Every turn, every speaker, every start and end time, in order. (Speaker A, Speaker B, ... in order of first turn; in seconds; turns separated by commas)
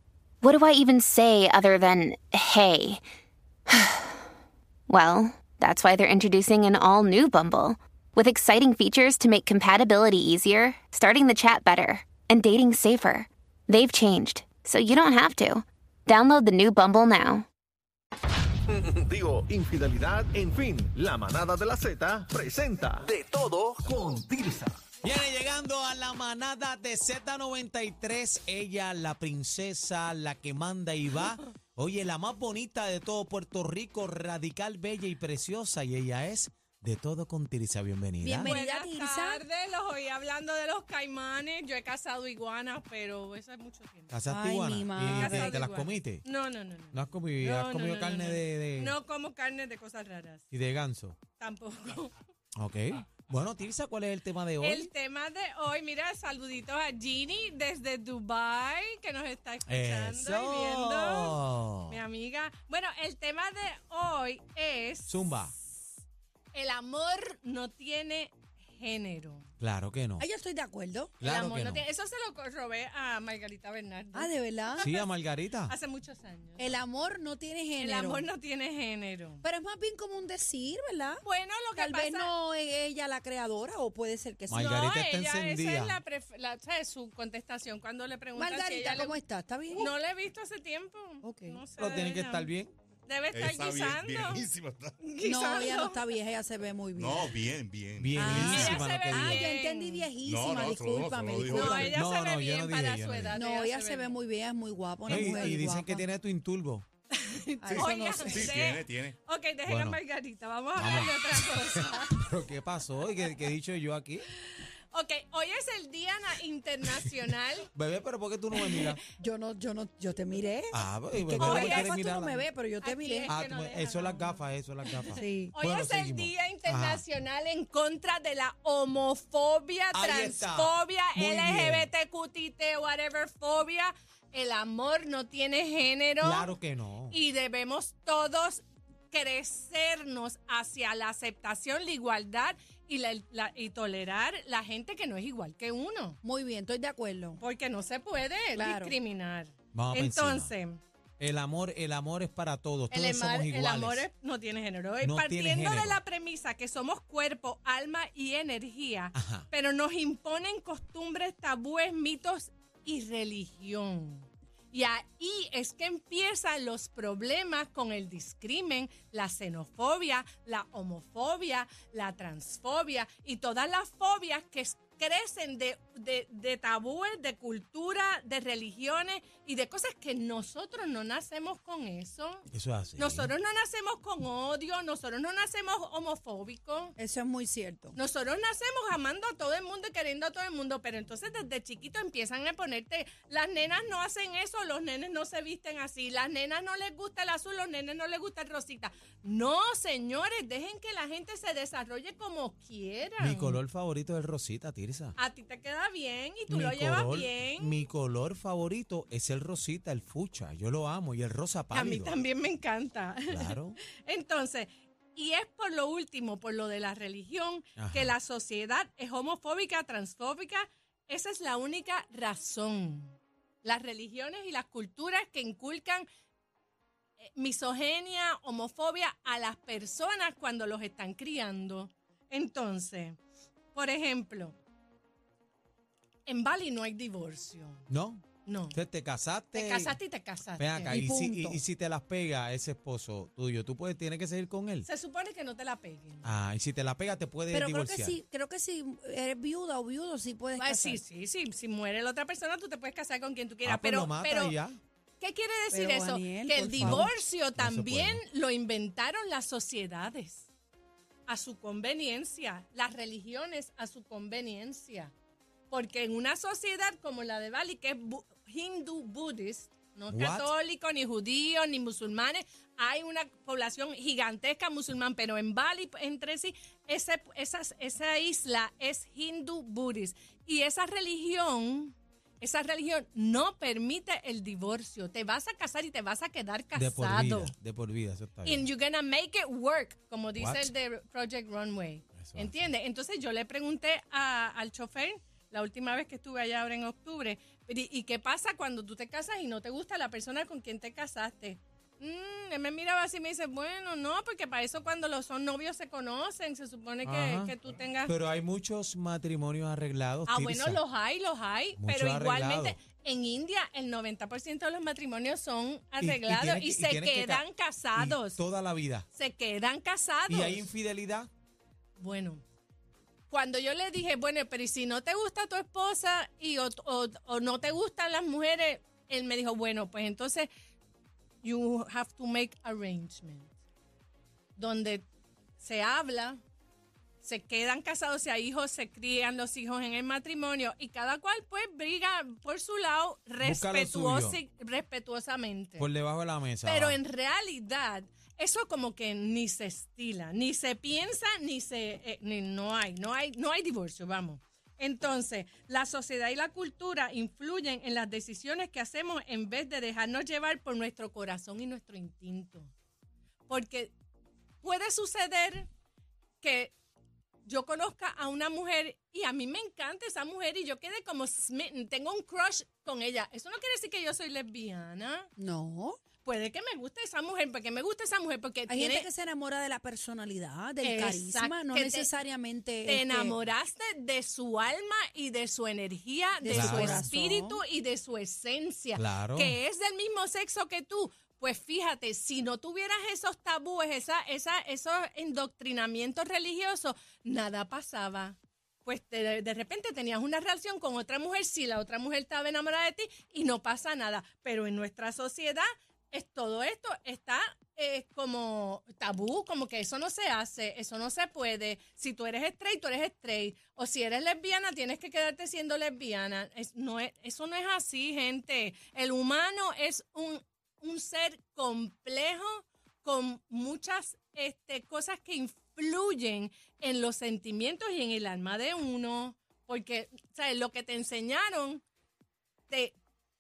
Speaker A: 0.4-3.0, Speaker A: 3.7-4.2, Speaker A: 4.9-17.5, Speaker B: 18.7-24.8, Speaker C: 25.0-38.6, Speaker D: 38.2-39.4, Speaker E: 38.4-44.1, Speaker C: 44.1-46.2, Speaker D: 44.3-45.6, Speaker E: 45.0-50.5, Speaker C: 46.9-49.0, Speaker C: 50.5-51.2, Speaker E: 51.4-52.1, Speaker C: 52.6-54.9, Speaker E: 54.6-65.6, Speaker C: 59.7-62.0, Speaker C: 65.1-65.6, Speaker E: 66.5-69.5, Speaker C: 69.6-70.3, Speaker D: 70.2-71.2, Speaker C: 71.2-71.9, Speaker E: 71.2-75.1, Speaker D: 74.1-74.9, Speaker C: 74.8-75.8, Speaker E: 75.7-76.8, Speaker D: 76.6-78.3, Speaker E: 77.8-79.4, Speaker D: 79.4-81.2, Speaker E: 81.2-82.3, Speaker D: 81.8-84.8, Speaker C: 84.5-86.0, Speaker E: 84.5-89.2, Speaker D: 88.3-89.9, Speaker E: 89.7-92.5, Speaker D: 91.2-91.6, Speaker C: 91.8-92.7, Speaker E: 93.1-94.5, Speaker F: 93.3-95.0, Speaker E: 95.0-96.0, Speaker D: 95.2-97.4, Speaker F: 97.0-98.8, Speaker C: 98.0-99.4, Speaker D: 98.2-102.0, Speaker E: 98.2-100.1, Speaker F: 100.2-102.0, Speaker E: 101.5-104.2, Speaker C: 101.9-103.4, Speaker D: 103.3-106.1, Speaker C: 105.1-106.9, Speaker E: 105.1-105.5, Speaker E: 107.1-112.3, Speaker D: 107.6-108.5, Speaker F: 107.7-109.2, Speaker C: 109.6-110.0, Speaker C: 110.8-114.2, Speaker E: 114.4-117.7, Speaker C: 117.7-119.0, Speaker E: 118.6-118.9, Speaker D: 119.2-123.3, Speaker C: 120.7-122.5, Speaker E: 121.4-122.0, Speaker E: 122.8-136.5, Speaker C: 123.3-127.0, Speaker D: 125.1-125.5, Speaker C: 129.9-131.9, Speaker C: 136.2-137.2, Speaker E: 137.1-146.2, Speaker D: 146.2-147.4, Speaker E: 147.4-150.8, Speaker D: 148.6-148.9, Speaker C: 149.7-150.5, Speaker C: 151.2-154.1, Speaker E: 152.9-182.4, Speaker C: 155.0-156.0, Speaker C: 159.1-159.5, Speaker C: 182.5-183.3, Speaker E: 183.0-186.9, Speaker D: 187.0-188.0, Speaker E: 187.9-203.6, Speaker C: 203.2-205.2, Speaker E: 205.2-207.8, Speaker C: 206.5-212.2, Speaker E: 211.7-226.1, Speaker C: 213.3-213.8, Speaker C: 217.8-218.1, Speaker E: 227.2-233.2, Speaker E: 233.7-234.6, Speaker E: 236.2-237.9, Speaker C: 237.9-240.0, Speaker E: 238.4-238.8, Speaker E: 239.5-241.0, Speaker C: 240.6-244.9, Speaker D: 240.9-241.6, Speaker E: 244.9-246.3, Speaker C: 246.2-248.2, Speaker D: 247.5-251.0, Speaker E: 250.6-254.6, Speaker C: 253.6-254.8, Speaker E: 255.2-260.5, Speaker D: 255.7-257.1, Speaker C: 256.8-258.2, Speaker E: 261.2-265.1, Speaker E: 265.7-287.5, Speaker C: 270.1-270.5, Speaker C: 286.8-288.7, Speaker E: 288.4-308.1, Speaker C: 290.4-290.7, Speaker C: 292.2-292.7, Speaker C: 307.0-310.8, Speaker E: 310.3-318.4, Speaker C: 311.8-312.8, Speaker C: 316.0-319.1, Speaker E: 319.1-320.6, Speaker C: 320.3-321.3, Speaker E: 322.0-322.4, Speaker E: 323.3-330.5, Speaker E: 331.4-333.5, Speaker E: 334.6-335.1, Speaker E: 335.6-336.4, Speaker E: 337.2-345.9, Speaker C: 343.4-344.4, Speaker C: 345.8-347.0, Speaker E: 346.6-362.7, Speaker E: 363.5-363.9, Speaker E: 364.6-365.7, Speaker E: 366.4-366.7, Speaker E: 367.4-375.3, Speaker D: 375.4-376.0, Speaker E: 376.2-379.1, Speaker D: 378.7-383.4, Speaker E: 380.8-382.1, Speaker E: 382.8-431.8, Speaker D: 386.4-387.6, Speaker C: 386.5-387.0, Speaker C: 388.9-389.6, Speaker E: 432.7-432.9